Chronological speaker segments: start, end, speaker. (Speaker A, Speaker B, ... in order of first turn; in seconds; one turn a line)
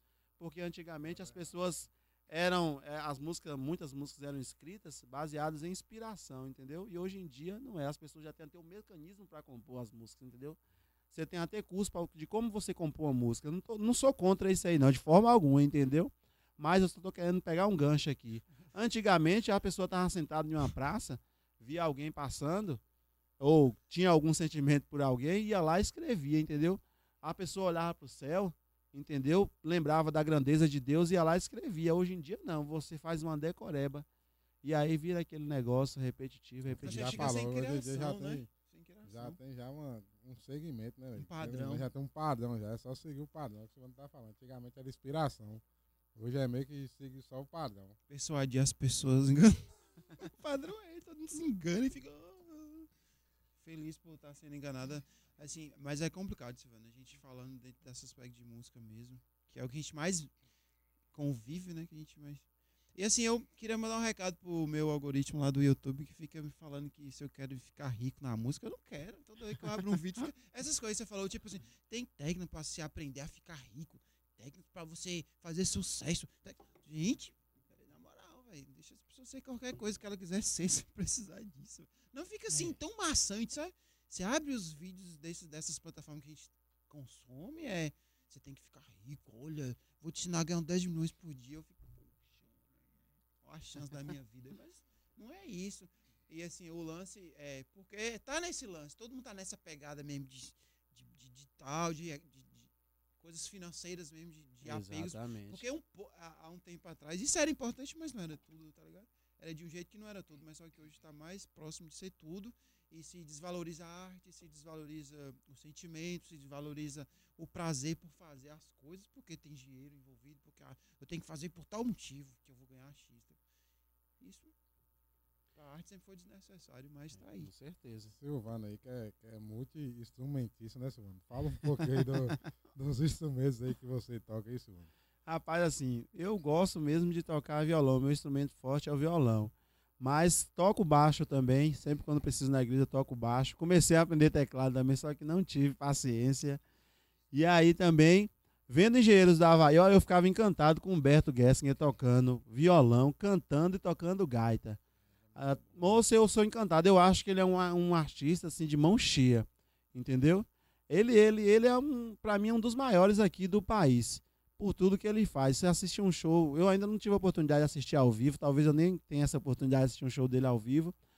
Speaker A: 0.4-10.6
Speaker B: 1.1-1.5
Speaker A: 11.1-22.8
Speaker A: 23.4-34.0
Speaker A: 34.6-37.4
Speaker B: 36.7-38.5
Speaker C: 36.8-39.4
Speaker B: 39.0-45.6
Speaker C: 41.2-41.9
Speaker B: 46.1-48.0
Speaker C: 48.1-52.9
Speaker C: 53.6-60.3
Speaker C: 61.1-62.4
Speaker C: 62.9-92.6
Speaker C: 93.4-123.4
Speaker A: 104.6-105.6
Speaker C: 124.2-124.5
Speaker C: 125.5-127.5
Speaker A: 127.1-128.1
Speaker B: 128.1-134.9
Speaker A: 132.1-132.4
Speaker A: 135.2-146.6
Speaker A: 147.3-154.8
Speaker A: 155.3-170.9